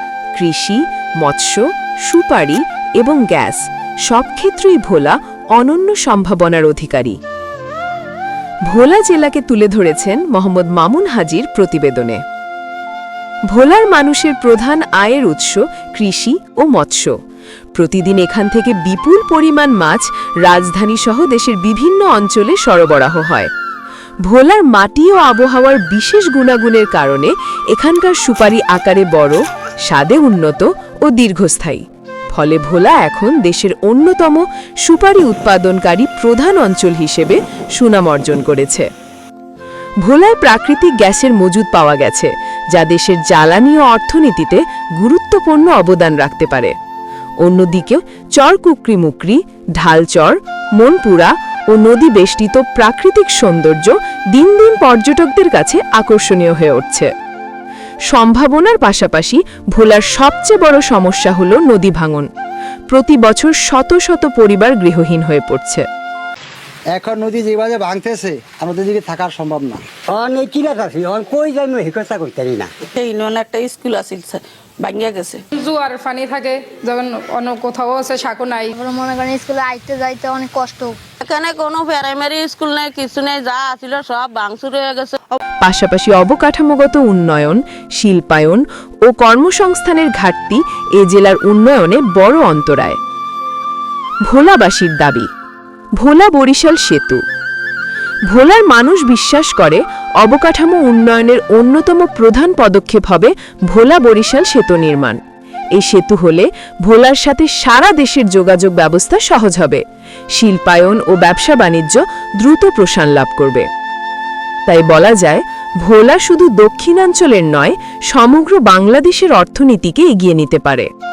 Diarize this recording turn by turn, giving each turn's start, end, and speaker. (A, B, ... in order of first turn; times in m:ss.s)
0:00.3-0:07.2 A
0:08.7-0:12.2 A
0:13.5-0:17.1 A
0:17.7-0:23.5 A
0:24.3-0:38.9 A
0:40.0-0:46.7 A
0:47.4-0:57.1 A
0:58.1-1:02.3 A
1:02.9-1:05.8 A
1:06.9-1:09.8 B
1:10.1-1:12.7 C
1:12.9-1:15.4 D
1:15.5-1:18.7 E
1:18.8-1:20.9 F
1:21.2-1:25.4 D
1:25.6-1:33.0 A
1:34.2-1:35.3 A
1:36.0-1:37.2 A
1:38.3-1:45.2 A
1:45.7-1:49.8 A
1:50.3-1:53.6 A
1:54.7-2:00.9 A